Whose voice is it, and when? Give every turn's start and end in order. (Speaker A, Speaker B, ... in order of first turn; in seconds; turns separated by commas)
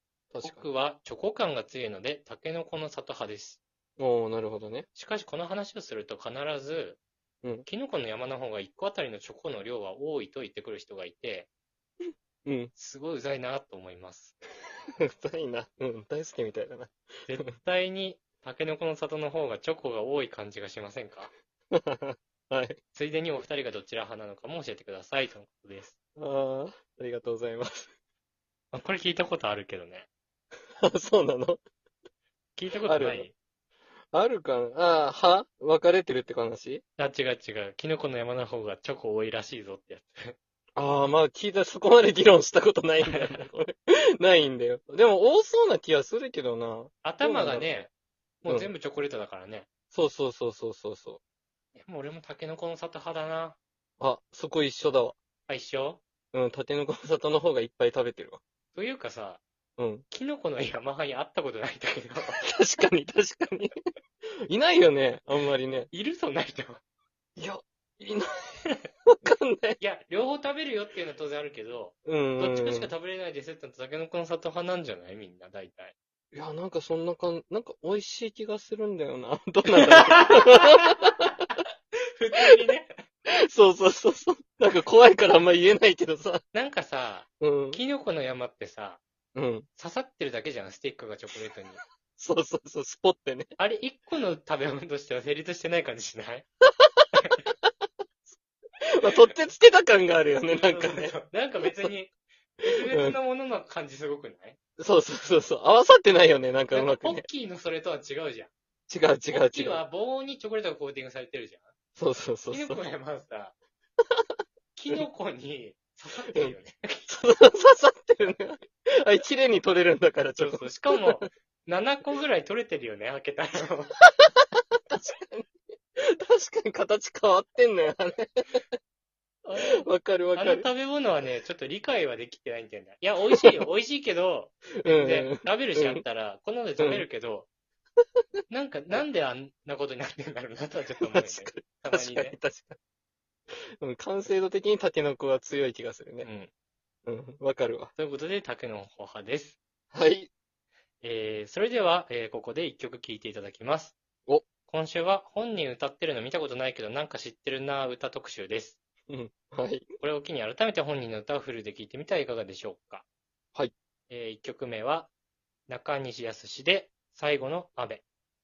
Speaker A: 0.3-0.7, Speaker B: 0.4-3.6, Speaker A: 4.0-4.9, Speaker B: 5.0-7.0, Speaker B: 7.7-11.5, Speaker A: 12.4-12.7, Speaker B: 12.8-14.3, Speaker A: 15.0-17.5, Speaker B: 17.3-21.3, Speaker A: 21.7-22.8, Speaker B: 22.9-25.9, Speaker A: 26.2-27.9, Speaker B: 28.7-30.1, Speaker A: 30.8-31.6, Speaker B: 32.6-33.3, Speaker A: 32.9-33.3, Speaker A: 34.1-36.8, Speaker B: 37.0-40.4, Speaker A: 40.8-47.9, Speaker B: 43.1-43.4, Speaker B: 47.0-47.9, Speaker B: 48.4-49.7, Speaker A: 49.9-51.2, Speaker B: 51.8-53.6, Speaker A: 54.0-55.1, Speaker B: 55.5-56.0, Speaker A: 56.3-58.4, Speaker B: 58.7-59.4, Speaker A: 59.8-60.0, Speaker B: 60.1-62.4, Speaker A: 62.4-63.7, Speaker A: 64.5-65.9, Speaker B: 65.9-66.8, Speaker A: 67.4-68.3, Speaker A: 69.2-69.8, Speaker B: 69.8-76.0, Speaker A: 72.0-72.9, Speaker A: 76.3-81.3, Speaker B: 79.8-81.6, Speaker B: 82.2-82.9, Speaker A: 83.4-86.4, Speaker B: 86.5-89.0, Speaker A: 87.4-87.8, Speaker A: 89.4-89.7, Speaker B: 89.8-91.8, Speaker A: 92.2-93.5, Speaker B: 93.6-96.5, Speaker A: 96.8-97.7, Speaker B: 97.2-97.4, Speaker A: 99.0-101.2, Speaker B: 100.5-104.6, Speaker A: 102.9-103.2, Speaker A: 104.8-107.3, Speaker B: 106.7-108.5, Speaker A: 108.9-109.8, Speaker B: 109.3-111.7, Speaker A: 112.0-112.8, Speaker B: 112.5-113.5, Speaker B: 114.8-117.1, Speaker A: 117.1-121.3, Speaker B: 120.4-124.0, Speaker A: 124.0-128.6, Speaker B: 129.4-137.5, Speaker A: 129.6-130.7, Speaker A: 134.8-136.0, Speaker A: 136.8-137.1, Speaker B: 138.5-142.4, Speaker A: 141.0-142.8, Speaker A: 143.8-146.3, Speaker B: 146.2-146.5, Speaker A: 147.1-147.9, Speaker B: 148.0-149.6, Speaker A: 149.9-150.3, Speaker B: 151.0-154.0, Speaker B: 154.7-158.8, Speaker A: 159.1-159.9, Speaker B: 160.0-163.1, Speaker B: 164.1-165.1, Speaker B: 165.7-168.0